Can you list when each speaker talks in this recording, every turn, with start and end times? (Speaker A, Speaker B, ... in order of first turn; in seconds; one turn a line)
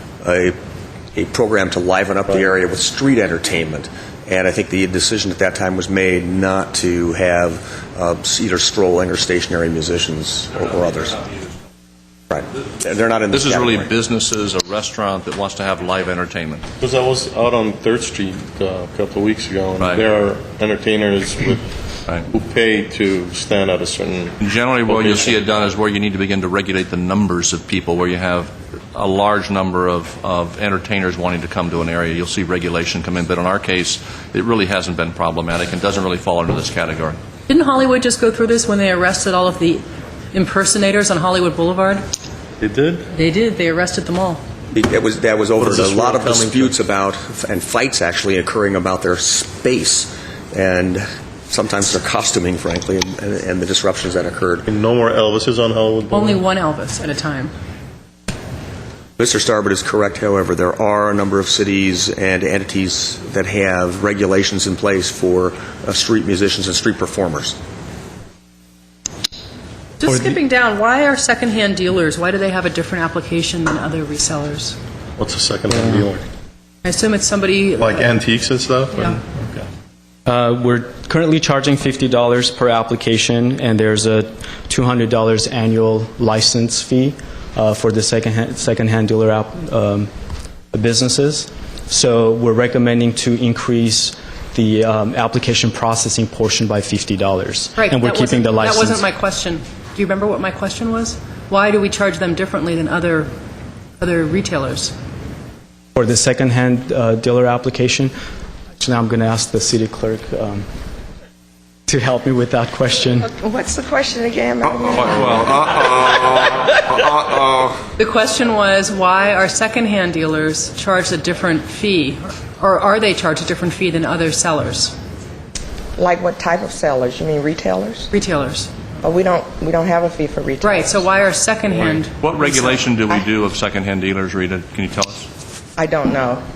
Speaker A: 0.2-0.6
Speaker A: 1.1-11.2
Speaker A: 12.3-13.9
Speaker B: 13.3-16.6
Speaker C: 16.8-21.7
Speaker C: 22.2-24.4
Speaker B: 24.4-37.2
Speaker C: 24.9-25.4
Speaker D: 37.5-42.0
Speaker C: 42.6-43.1
Speaker D: 43.1-44.4
Speaker A: 44.7-54.6
Speaker C: 45.6-46.7
Speaker C: 54.7-56.4
Speaker D: 56.1-57.5
Speaker A: 59.2-67.6
Speaker D: 70.0-74.8
Speaker C: 75.2-76.2
Speaker D: 76.8-78.2
Speaker C: 77.8-79.6
Speaker D: 78.9-79.2
Speaker E: 80.2-90.1
Speaker E: 90.7-99.0
Speaker D: 97.8-103.3
Speaker D: 104.0-104.9
Speaker E: 105.9-108.1
Speaker E: 108.8-110.7
Speaker E: 111.9-113.3
Speaker F: 113.3-116.7
Speaker D: 118.0-124.9
Speaker F: 126.0-128.1
Speaker D: 128.1-128.7
Speaker F: 129.0-131.1
Speaker D: 130.6-132.7
Speaker B: 132.2-135.3
Speaker F: 135.8-136.4